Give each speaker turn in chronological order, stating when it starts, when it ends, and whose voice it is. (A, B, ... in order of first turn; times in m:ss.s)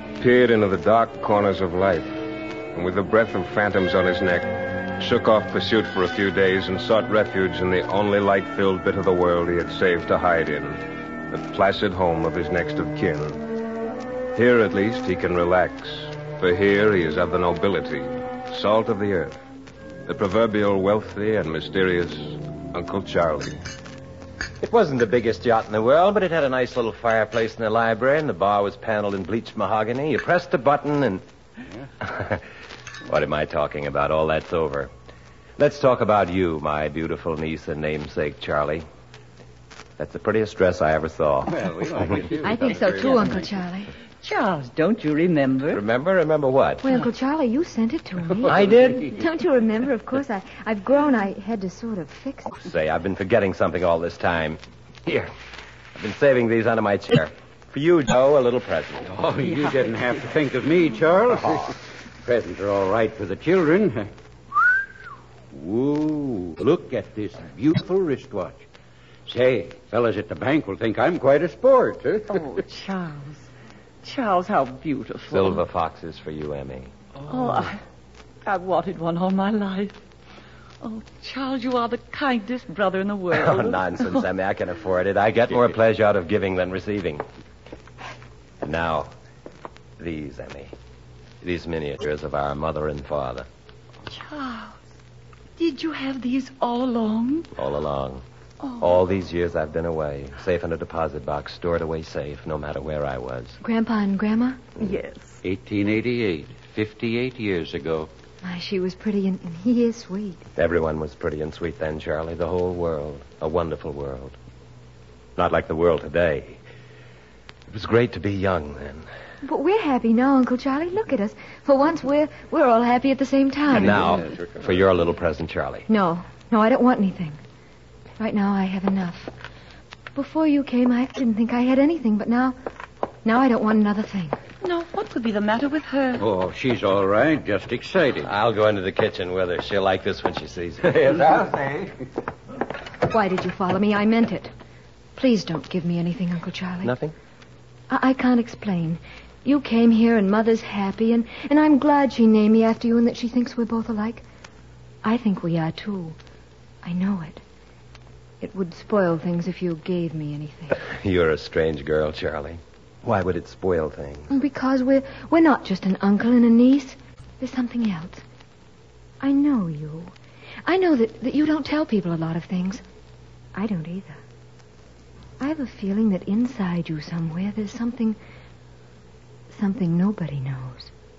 0:00.2-0:02.2 A
0:02.7-0:13.4 A
0:14.3-0:19.4 A
0:20.0-0:23.6 A
0:24.6-0:31.2 B
0:32.0-0:32.4 B
0:33.0-0:34.9 B
0:35.6-0:38.8 B
0:40.0-0:41.6 B
0:41.5-0:43.4 C
0:42.4-0:43.9 D
0:44.2-0:45.8 E
0:45.7-0:46.8 B
0:46.8-0:52.6 D
0:48.5-0:49.1 B
0:52.6-0:55.3 B
0:55.9-0:59.1 B
0:59.1-1:04.1 C
1:05.5-1:08.6 C
1:09.2-1:12.5 C
1:12.3-1:13.5 E
1:14.0-1:15.6 E
1:15.3-1:16.9 B
1:17.3-1:17.8 E
1:18.4-1:20.0 E
1:20.8-1:24.2 E
1:23.3-1:27.2 B
1:28.6-1:29.1 B
1:30.0-1:30.7 B
1:31.4-1:33.5 B
1:34.1-1:34.8 E
1:35.6-1:37.5 E
1:37.5-1:38.2 B
1:38.6-1:38.9 E
1:38.8-1:43.6 B
1:43.6-1:44.6 D
1:44.8-1:45.4 E
1:45.4-1:48.1 C
1:48.4-1:50.4 D
1:50.6-1:54.4 B
1:55.4-1:56.6 B
1:57.7-1:59.1 B
1:59.4-2:04.0 D
2:03.7-2:05.9 B
2:04.1-2:04.5 C
2:05.9-2:07.4 D
2:08.2-2:09.3 D
2:10.1-2:12.6 D
2:13.2-2:14.4 D
2:14.6-2:16.2 E
2:16.2-2:18.3 C
2:18.2-2:21.8 B
2:23.0-2:24.5 D
2:25.2-2:26.9 D
2:26.8-2:27.1 B
2:27.9-2:34.2 D
2:35.0-2:36.2 D
2:36.8-2:37.4 D
2:38.4-2:40.8 D
2:40.7-2:44.3 B
2:44.3-2:48.2 D
2:49.2-2:50.1 D
2:50.6-2:52.8 D
2:53.5-2:54.2 D
2:55.4-2:58.2 D
2:59.5-3:00.9 D